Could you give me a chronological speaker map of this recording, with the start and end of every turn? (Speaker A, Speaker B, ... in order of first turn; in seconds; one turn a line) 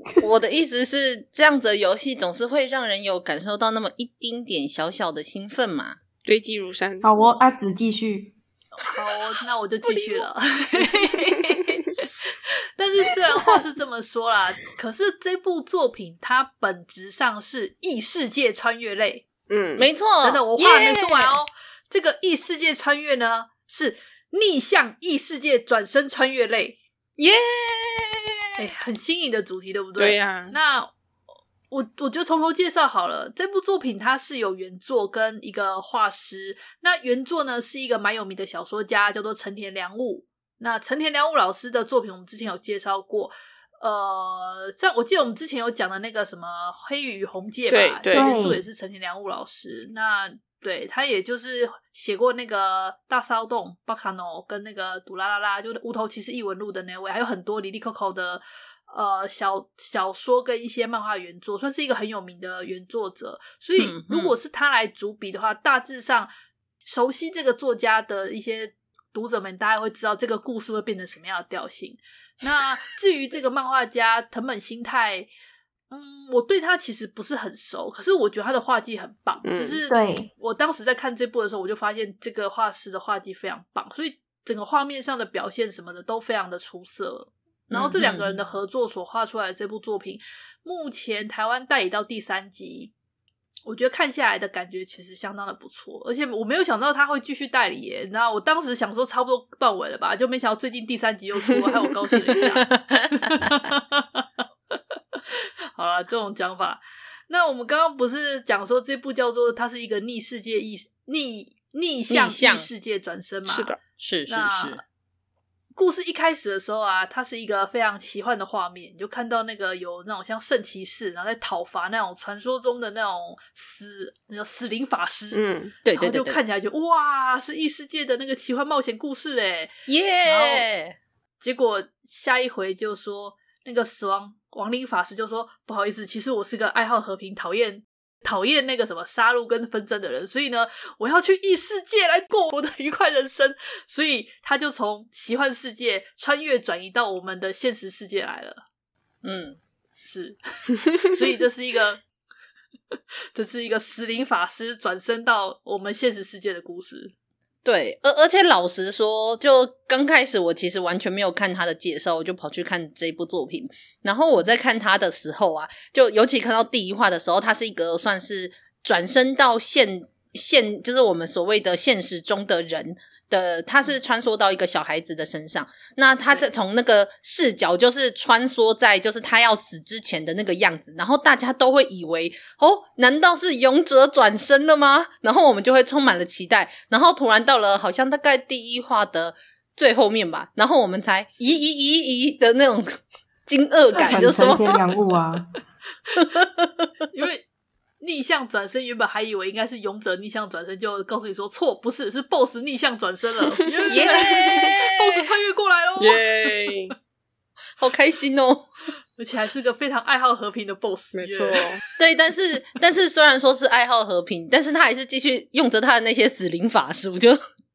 Speaker A: 0.2-6.0
Speaker B: 6.3-7.1
Speaker C: 7.0-8.3
Speaker D: 8.8-19.3
Speaker B: 19.5-19.9
Speaker A: 19.8-21.4
Speaker D: 20.2-26.8
Speaker A: 27.2-28.3
Speaker D: 28.6-30.9
Speaker B: 30.0-30.6
Speaker D: 31.7-66.3
Speaker B: 47.7-48.3
Speaker C: 48.1-48.6
Speaker A: 63.8-64.3
Speaker D: 66.8-75.3
Speaker D: 75.9-92.9
Speaker B: 79.5-79.8
Speaker C: 79.9-80.3
Speaker A: 87.7-88.4
Speaker D: 93.7-102.7
Speaker A: 102.5-103.3
Speaker D: 103.3-104.2
Speaker D: 105.8-113.8
Speaker A: 112.1-112.7
Speaker B: 113.5-113.8
Speaker A: 114.0-114.8
Speaker D: 114.3-114.8
Speaker D: 115.8-129.7
Speaker B: 125.3-125.7
Speaker A: 125.8-126.4
Speaker A: 129.9-131.0
Speaker D: 130.2-130.7
Speaker D: 131.4-148.6
Speaker A: 149.2-149.6
Speaker D: 150.0-152.0
Speaker D: 153.3-157.1
Speaker A: 157.6-194.8
Speaker D: 193.9-194.6
Speaker C: 194.1-195.5
Speaker D: 197.1-197.5
Speaker D: 198.0-206.2
Speaker A: 203.9-205.1
Speaker B: 206.0-206.9
Speaker A: 207.8-208.7
Speaker D: 209.2-211.7
Speaker B: 211.1-211.8
Speaker A: 212.0-217.4